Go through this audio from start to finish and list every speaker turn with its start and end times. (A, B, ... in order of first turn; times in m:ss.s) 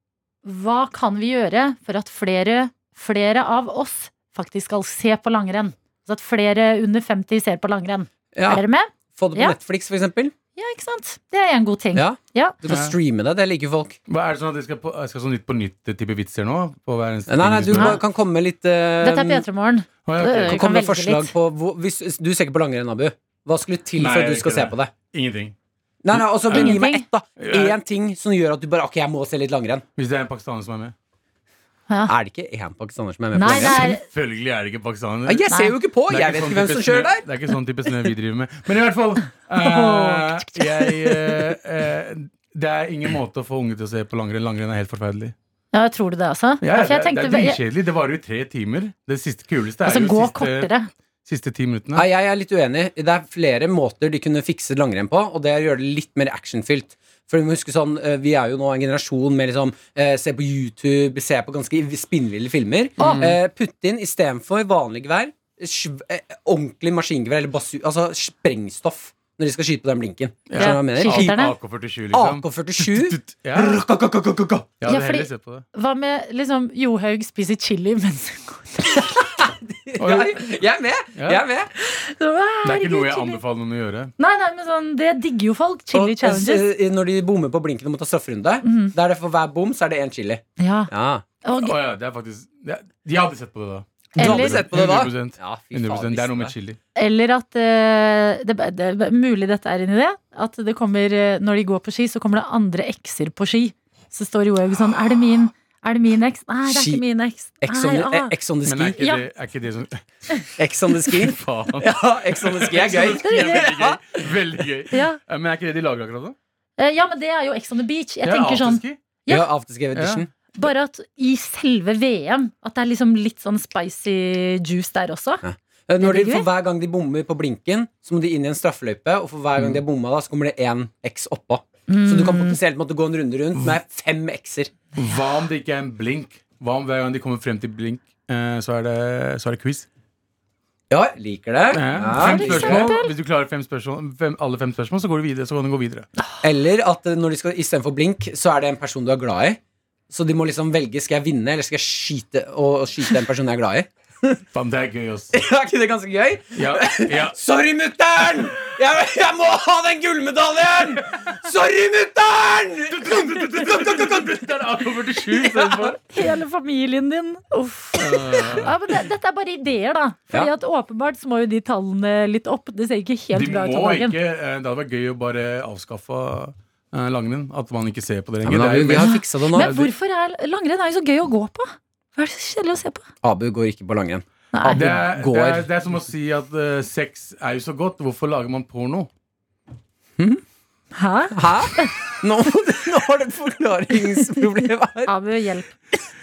0:00.4-0:09.6 A
0:08.4-0:10.3 B
0:10.6-0:12.6 A
0:12.0-0:14.0 B
0:12.7-0:12.9 C
0:14.1-0:18.0 C
0:17.3-0:19.4 B
0:17.7-0:18.0 A
0:19.0-0:21.3 A
0:20.0-0:20.6 C
0:20.3-0:24.9 B
0:24.0-0:25.6 C
0:26.0-0:29.8 B
0:26.1-0:26.8 C
0:26.5-0:27.1 A
0:27.4-0:27.8 C
0:30.0-0:30.9 C
0:32.1-0:33.9 B
0:33.4-0:34.0 A
0:33.4-0:35.5 C
0:35.3-0:37.2 B
0:35.5-0:35.7 A
0:36.1-0:45.3 C
0:39.6-0:40.6 A
0:45.7-0:47.6 A
0:46.6-0:50.7 C
0:49.8-0:50.9 A
0:51.2-0:52.0 C
0:52.0-1:11.5 B
1:03.0-1:03.4 A
1:03.0-1:03.3 C
1:10.5-1:13.8 C
1:10.6-1:11.6 A
1:12.1-1:14.7 B
1:14.8-1:15.6 C
1:14.8-1:19.3 A
1:19.4-1:21.7 B
1:20.0-1:20.4 C
1:21.2-1:21.4 C
1:21.8-1:23.4 A
1:22.6-1:24.1 C
1:24.2-1:26.6 A
1:25.9-1:31.2 B
1:28.6-1:28.9 A
1:30.6-1:30.9 A
1:31.4-1:31.8 A
1:31.5-1:36.8 C
1:34.2-1:34.7 A
1:34.2-1:36.5 B
1:37.0-1:48.3 A
1:46.6-1:47.0 B
1:47.6-1:49.0 B
1:48.6-1:50.5 C
1:49.0-1:49.2 A
1:50.6-1:54.3 B
1:51.1-1:56.4 C
1:53.2-1:53.7 A
1:54.9-1:55.2 A
1:56.8-1:59.5 A
1:58.2-1:59.0 C
1:59.3-2:00.3 B
1:59.9-2:00.2 C
2:00.6-2:05.4 A
2:05.4-2:14.7 B
2:06.0-2:06.5 A
2:11.9-2:12.6 A
2:15.0-2:19.9 C
2:20.9-2:22.9 B
2:21.7-2:26.1 C
2:22.0-2:23.1 A
2:26.4-2:29.6 B
2:30.1-2:34.4 B
2:34.5-2:35.3 C
2:35.3-2:45.9 B
2:36.6-2:37.4 C
2:42.9-2:46.0 C
2:46.1-2:54.2 A
2:48.0-2:48.8 C
2:53.3-2:59.9 C
2:58.4-2:59.8 B
2:59.0-3:03.0 A
3:03.2-3:05.7 B
3:04.5-3:05.0 A
3:04.7-3:09.1 C
3:11.0-3:11.9 A
3:11.3-3:15.1 B
3:15.1-3:15.7 A